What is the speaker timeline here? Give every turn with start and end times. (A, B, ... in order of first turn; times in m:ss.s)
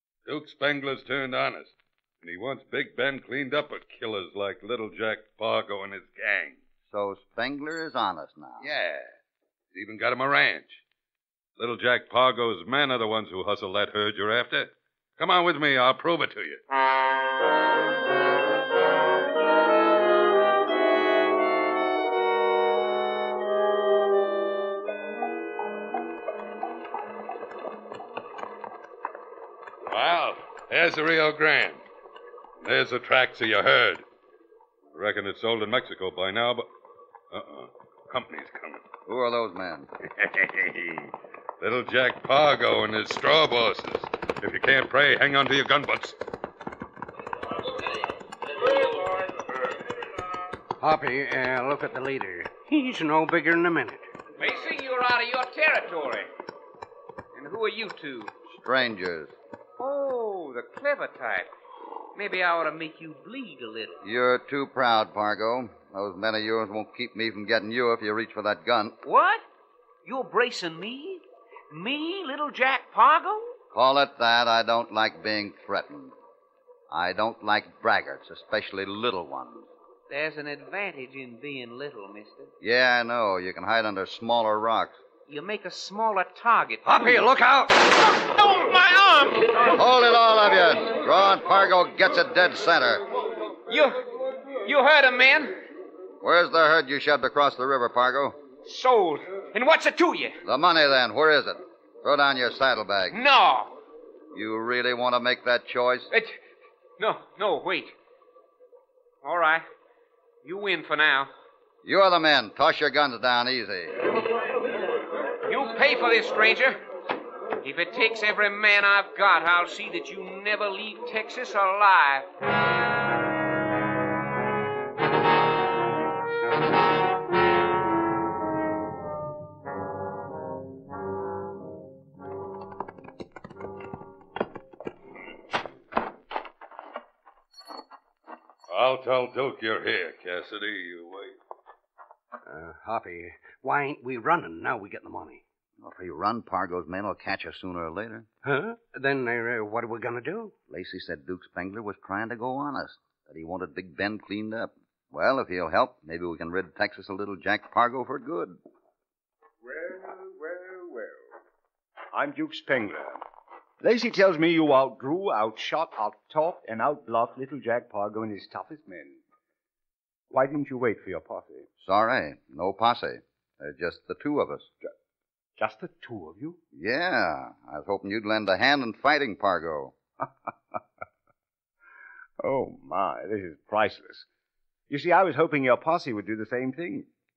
0:00.2-0:06.6 A
0:06.9-0:08.6 B
0:08.6-0:09.1 A
0:09.7-0:10.8 A
0:11.6-0:16.6 A
0:29.8-0:31.8 A
0:32.6-0:34.0 A
0:34.9-0:36.6 A
0:37.3-0:38.8 A
0:39.0-0:39.9 B
0:40.2-0:41.1 A
0:41.6-0:46.2 A
0:50.8-0:54.1 C
0:54.4-0:56.3 D
0:57.3-0:58.3 D
0:58.5-0:59.3 B
0:59.8-1:01.5 D
1:02.1-1:04.0 D
1:04.0-1:09.0 B
1:09.0-1:09.4 D
1:10.0-1:13.5 D
1:13.7-1:16.1 B
1:16.9-1:19.7 B
1:20.1-1:22.5 D
1:22.6-1:25.0 B
1:25.3-1:27.2 D
1:26.8-1:27.8 C
1:27.9-1:29.8 D
1:29.7-1:33.0 B
1:33.7-1:34.1 D
1:34.6-1:35.6 D
1:36.2-1:38.4 B
1:38.6-1:40.4 D
1:40.4-1:43.2 B
1:43.1-1:43.7 D
1:44.3-1:46.1 B
1:46.1-1:46.4 D
1:47.0-1:47.9 D
1:49.2-1:49.6 D
1:50.4-1:51.3 D
1:51.8-1:54.0 B
1:55.5-1:56.8 D
1:57.6-2:02.3 D
2:18.7-2:21.4 A
2:22.4-2:25.4 C
2:25.8-2:28.3 B
2:28.4-2:30.5 C
2:30.7-2:38.6 B
2:39.6-2:41.3 E
2:42.1-2:43.2 E
2:43.8-2:49.2 E
2:50.3-2:51.7 E
2:51.8-2:54.7 B
2:55.6-2:56.6 E
2:56.7-3:00.0 B
3:02.4-3:04.3 E
3:04.9-3:07.1 E